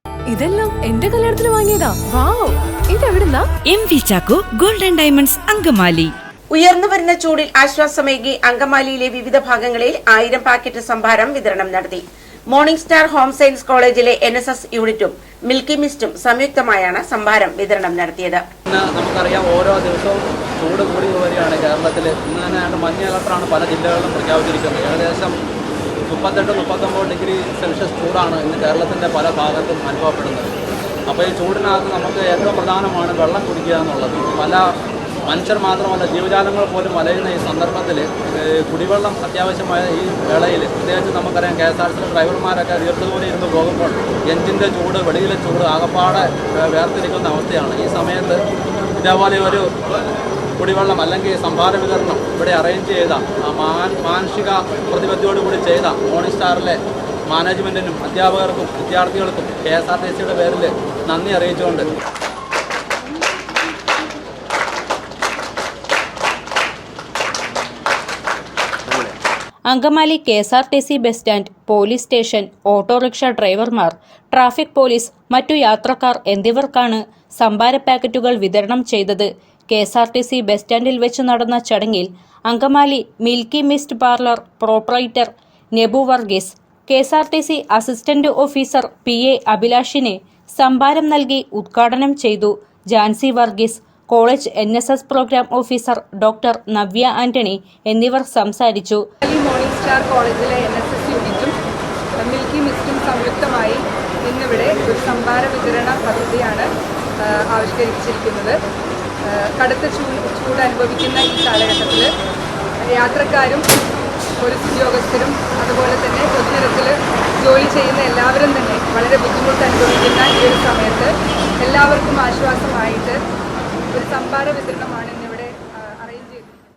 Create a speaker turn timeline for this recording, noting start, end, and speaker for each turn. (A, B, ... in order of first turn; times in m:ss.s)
0:00.3-0:03.5 A
0:03.6-0:06.1 B
0:06.5-0:18.4 C
0:18.7-0:25.3 D
0:26.1-0:30.5 D
0:31.1-0:34.6 D
0:35.3-0:48.4 D
0:49.0-0:49.7 D
0:50.6-1:01.9 D
1:09.7-1:39.0 E
1:39.2-1:41.5 F
1:42.2-1:46.7 F
1:47.3-1:48.5 F
1:49.3-1:52.1 F
1:52.8-1:53.6 F
1:54.4-2:03.2 F
2:03.9-2:06.7 F